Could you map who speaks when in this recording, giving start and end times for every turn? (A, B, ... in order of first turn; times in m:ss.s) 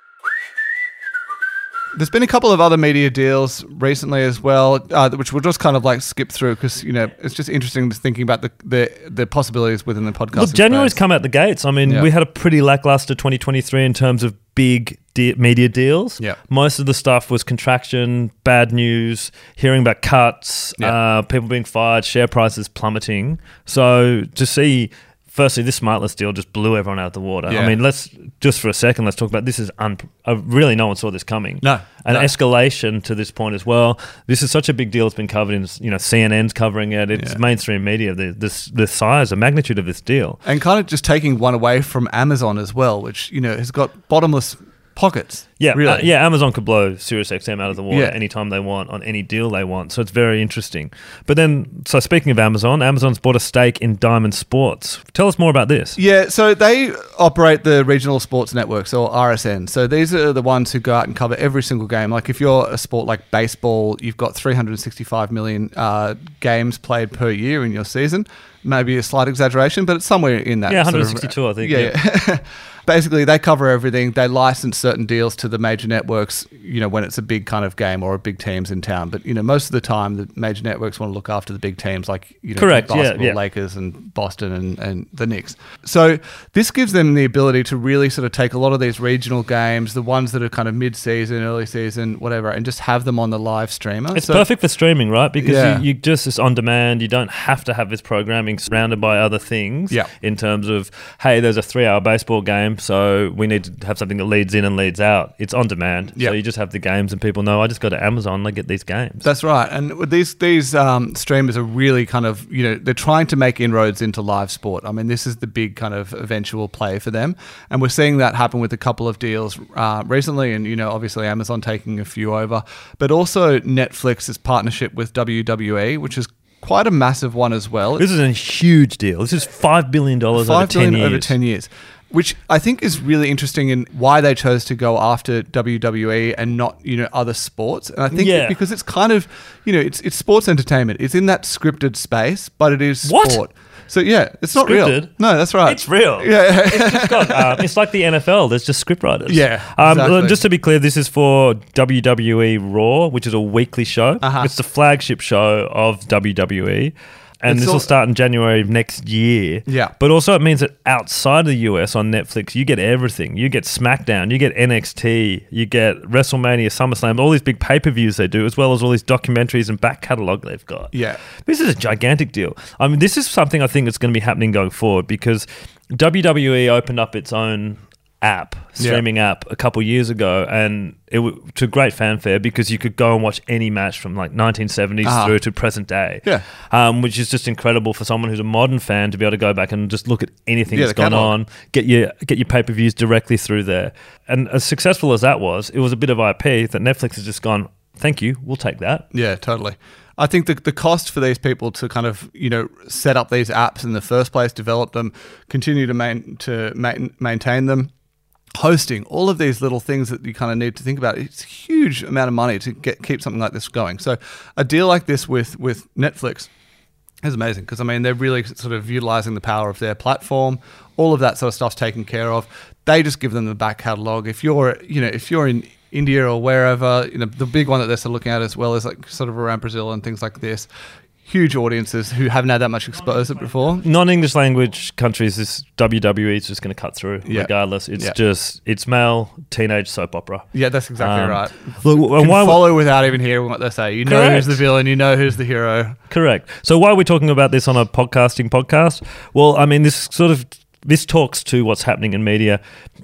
0:01.9-0:11.0 A
0:10.3-0:40.4 B
0:27.5-0:27.8 A
0:31.6-0:32.3 A
0:40.4-0:46.1 A
0:45.6-0:56.0 B
0:47.9-0:48.2 A
0:56.0-1:34.5 A
1:10.7-1:11.9 B
1:22.6-1:23.4 B
1:34.1-1:49.3 B
1:35.4-1:35.8 A
1:49.2-2:08.0 A
2:08.0-2:11.3 B
2:10.3-2:27.6 A
2:18.1-2:18.6 B
2:23.0-2:23.4 B
2:24.5-2:25.1 B
2:25.6-3:19.1 B
2:29.3-2:30.4 A
2:34.2-2:34.5 A
2:37.5-2:37.9 A
2:39.6-2:39.9 A
2:50.9-2:51.2 A
2:58.8-2:59.0 A
3:05.0-3:05.3 A
3:10.7-3:11.3 A
3:19.1-3:27.9 A
3:28.6-3:36.5 A
3:37.2-3:50.7 A
3:51.2-3:53.8 A
3:53.8-4:00.4 B
3:57.2-3:58.2 A
4:00.5-4:06.0 A
4:01.0-4:02.7 B
4:04.0-4:04.6 B
4:06.1-4:12.6 B